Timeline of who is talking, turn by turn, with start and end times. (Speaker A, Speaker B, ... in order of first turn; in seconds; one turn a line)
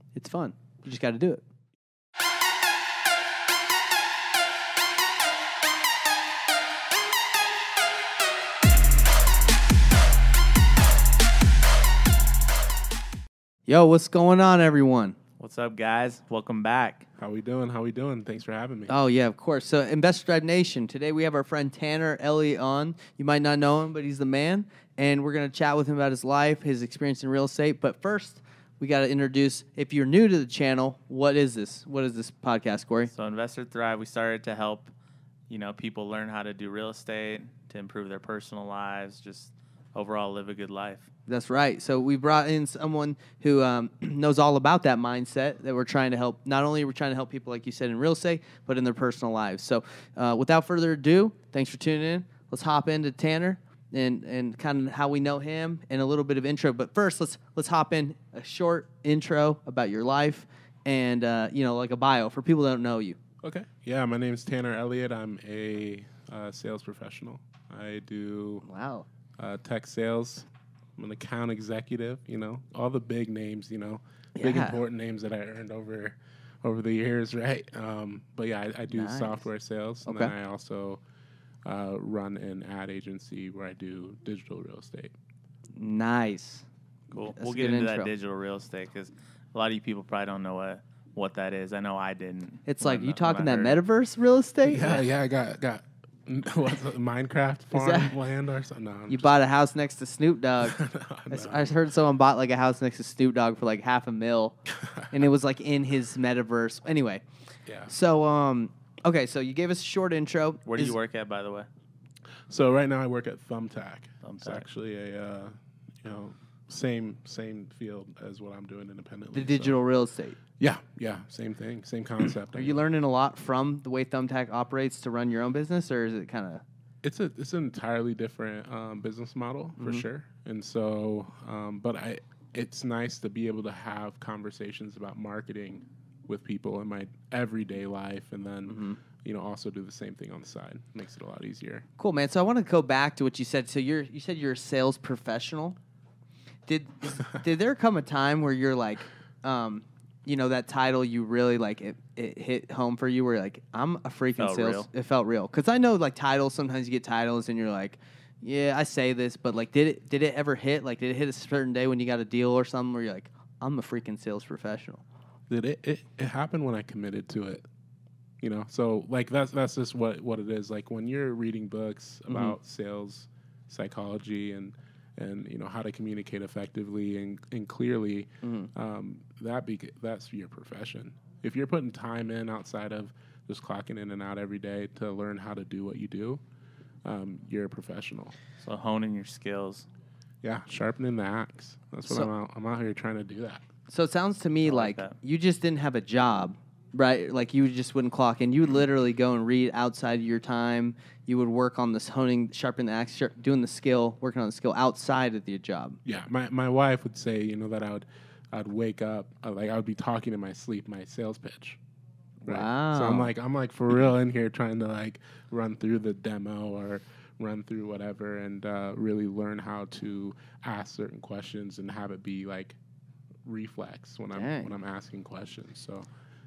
Speaker A: 0.1-1.4
Speaker A: 13.7-15.2
Speaker B: 15.4-17.1
Speaker C: 17.2-18.9
Speaker A: 18.9-33.1
Speaker B: 33.1-34.9
Speaker B: 35.5-41.1
Speaker A: 41.3-63.2
Speaker C: 63.4-68.6
Speaker A: 68.6-69.0
Speaker C: 69.4-81.0
Speaker A: 74.3-74.8
Speaker A: 78.9-79.5
Speaker A: 80.0-80.3
Speaker C: 81.6-85.1
Speaker A: 85.8-86.6
Speaker B: 87.1-93.8
Speaker A: 87.3-88.1
Speaker A: 92.7-95.0
Speaker C: 94.6-99.3
Speaker A: 97.7-98.1
Speaker A: 99.1-107.2
Speaker C: 100.6-101.7
Speaker C: 104.8-105.1
Speaker C: 107.7-107.9
Speaker A: 107.9-111.0
Speaker B: 110.7-111.7
Speaker C: 112.5-119.8
Speaker B: 114.2-114.7
Speaker A: 119.3-120.4
Speaker C: 120.6-122.8
Speaker A: 122.5-126.6
Speaker C: 127.0-141.8
Speaker A: 129.8-130.0
Speaker A: 138.7-139.0
Speaker A: 142.0-145.8
Speaker A: 146.7-165.0
Speaker B: 154.4-154.9
Speaker C: 165.5-167.7
Speaker C: 168.4-186.4
Speaker A: 172.3-172.5
Speaker A: 178.4-178.7
Speaker C: 187.0-188.3
Speaker B: 188.6-189.9
Speaker C: 190.4-193.6
Speaker A: 192.0-192.3
Speaker A: 193.9-206.0
Speaker B: 194.6-195.2
Speaker C: 206.0-211.8
Speaker C: 212.4-222.8
Speaker A: 212.4-213.3
Speaker C: 223.4-226.1
Speaker A: 224.3-224.7